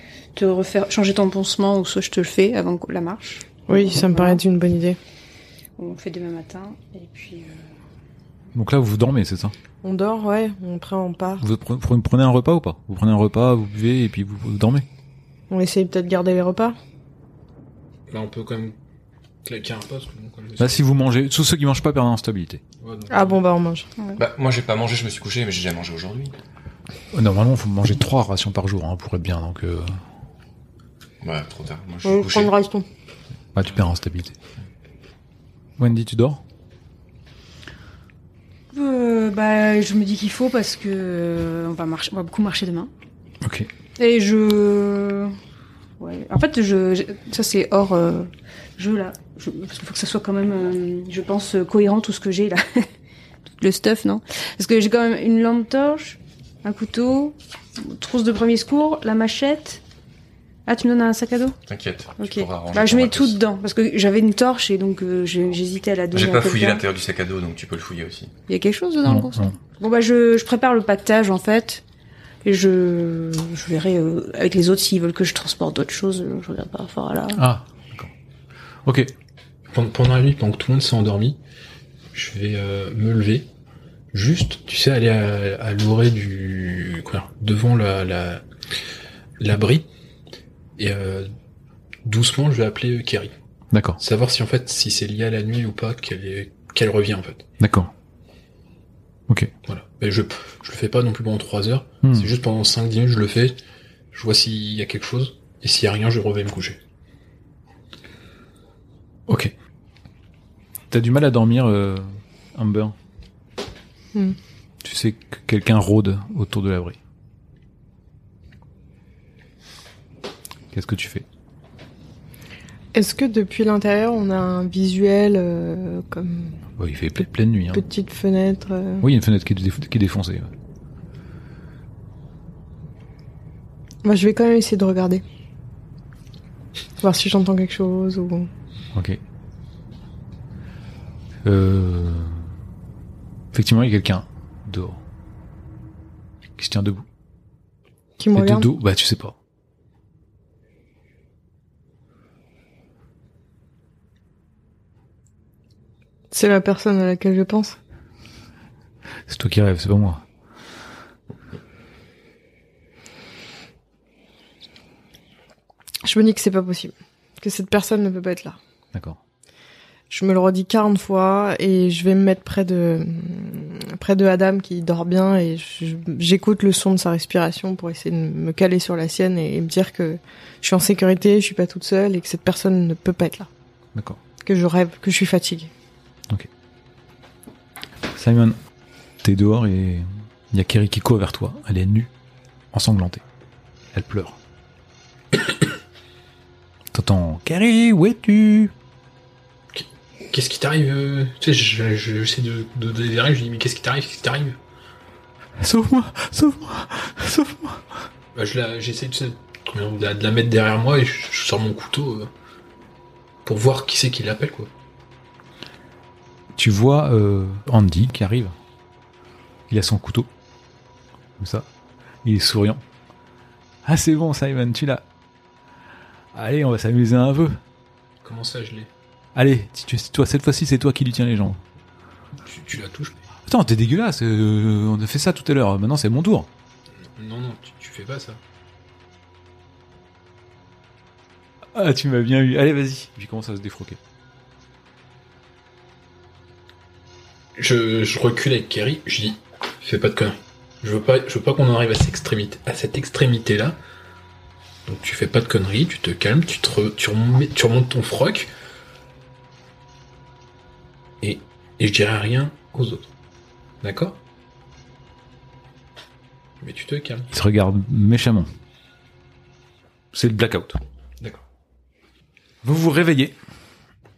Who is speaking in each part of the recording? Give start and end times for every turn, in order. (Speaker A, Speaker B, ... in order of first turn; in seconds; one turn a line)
Speaker A: 0.4-4.4
Speaker B: 3.7-5.0
Speaker A: 5.8-7.7
Speaker C: 8.5-9.5
Speaker B: 9.8-11.4
Speaker C: 11.4-14.9
Speaker B: 15.5-16.8
Speaker D: 18.1-18.8
Speaker D: 19.4-20.9
Speaker C: 20.6-22.6
Speaker D: 22.8-23.4
Speaker B: 23.1-23.9
Speaker E: 24.2-26.4
Speaker C: 27.1-30.0
Speaker E: 31.2-32.5
Speaker B: 32.0-32.9
Speaker C: 33.5-34.4
Speaker C: 35.8-36.4
Speaker A: 38.7-42.9
Speaker C: 43.4-43.7
Speaker A: 44.0-45.4
Speaker A: 46.0-52.9
Speaker A: 53.5-59.8
Speaker A: 60.7-61.6
Speaker E: 61.7-63.4
Speaker A: 62.2-66.8
Speaker E: 66.1-68.3
Speaker A: 68.5-71.8
Speaker C: 69.0-69.6
Speaker A: 72.4-77.4
Speaker C: 77.4-78.1
Speaker C: 78.8-79.1
Speaker D: 79.7-81.4
Speaker D: 82.1-83.5
Speaker D: 84.1-88.5
Speaker D: 89.4-89.9
Speaker D: 90.8-91.3
Speaker D: 92.0-93.3
Speaker C: 93.7-94.0
Speaker D: 94.0-97.5
Speaker C: 97.6-97.9
Speaker D: 99.7-103.6
Speaker C: 102.0-102.3
Speaker D: 104.1-106.8
Speaker C: 109.3-109.5
Speaker C: 110.9-113.0
Speaker C: 114.8-117.0
Speaker C: 120.7-121.3
Speaker B: 122.9-126.6
Speaker C: 126.8-127.8
Speaker B: 127.7-129.1
Speaker C: 129.0-130.5
Speaker B: 134.0-135.2
Speaker B: 137.0-138.5
Speaker C: 138.9-139.2
Speaker C: 141.4-142.5
Speaker C: 143.5-145.0
Speaker C: 146.6-147.1
Speaker B: 148.2-148.7
Speaker C: 148.3-149.3
Speaker B: 156.3-157.8
Speaker C: 159.3-160.2
Speaker B: 166.0-168.6
Speaker B: 170.1-183.5
Speaker C: 183.9-184.2
Speaker B: 184.4-185.7
Speaker C: 188.1-188.6
Speaker C: 189.2-192.1
Speaker C: 192.7-193.2
Speaker C: 193.9-194.4
Speaker C: 196.9-198.7
Speaker D: 199.7-204.6
Speaker C: 205.6-208.0
Speaker D: 208.3-212.3
Speaker D: 213.4-214.7
Speaker C: 216.6-218.5
Speaker C: 219.7-220.3
Speaker C: 221.4-221.7
Speaker C: 222.2-222.8
Speaker C: 223.8-225.1
Speaker C: 226.3-227.6
Speaker D: 228.2-228.9
Speaker C: 229.3-231.6
Speaker D: 232.4-233.2
Speaker C: 233.5-236.5
Speaker D: 237.2-238.4
Speaker C: 241.7-244.0
Speaker D: 247.6-253.8
Speaker D: 254.9-258.5
Speaker D: 261.2-263.1
Speaker D: 263.8-264.2
Speaker D: 266.6-267.3
Speaker C: 267.3-268.5
Speaker C: 270.1-270.8
Speaker C: 272.6-273.4